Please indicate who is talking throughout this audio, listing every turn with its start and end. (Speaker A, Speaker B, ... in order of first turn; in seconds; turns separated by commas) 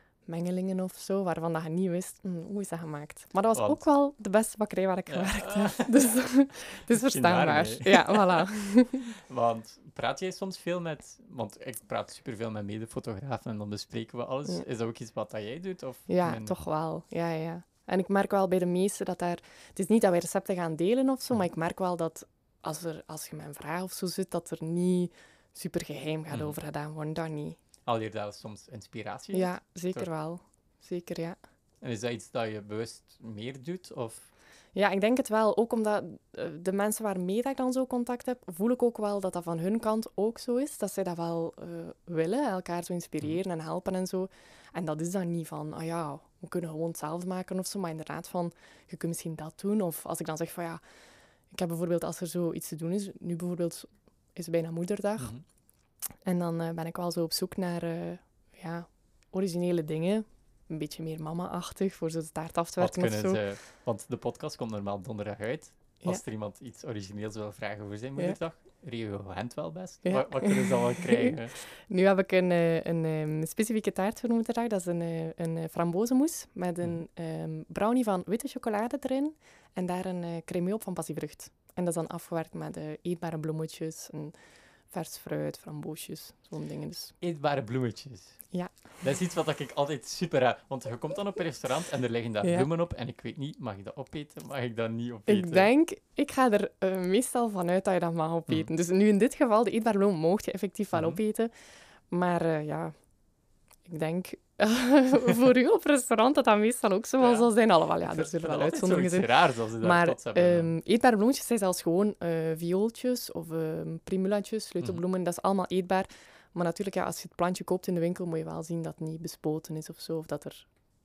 Speaker A: 0.2-9.1, Speaker B: 3.5-3.8, Speaker B: 5.1-6.2, Speaker B: 6.8-8.5, Speaker B: 9.1-16.6, Speaker A: 16.1-27.6, Speaker B: 27.9-30.1, Speaker A: 29.3-31.4, Speaker B: 31.8-34.3, Speaker A: 34.7-50.8, Speaker A: 51.5-55.3, Speaker B: 55.2-55.4, Speaker A: 56.2-63.4, Speaker B: 62.8-71.5, Speaker A: 70.0-84.3, Speaker A: 84.9-87.1, Speaker B: 87.2-95.7, Speaker A: 92.4-92.7, Speaker A: 95.3-101.5, Speaker B: 100.9-101.2, Speaker A: 102.1-103.0, Speaker A: 103.8-120.7, Speaker B: 107.2-107.5, Speaker B: 108.0-110.7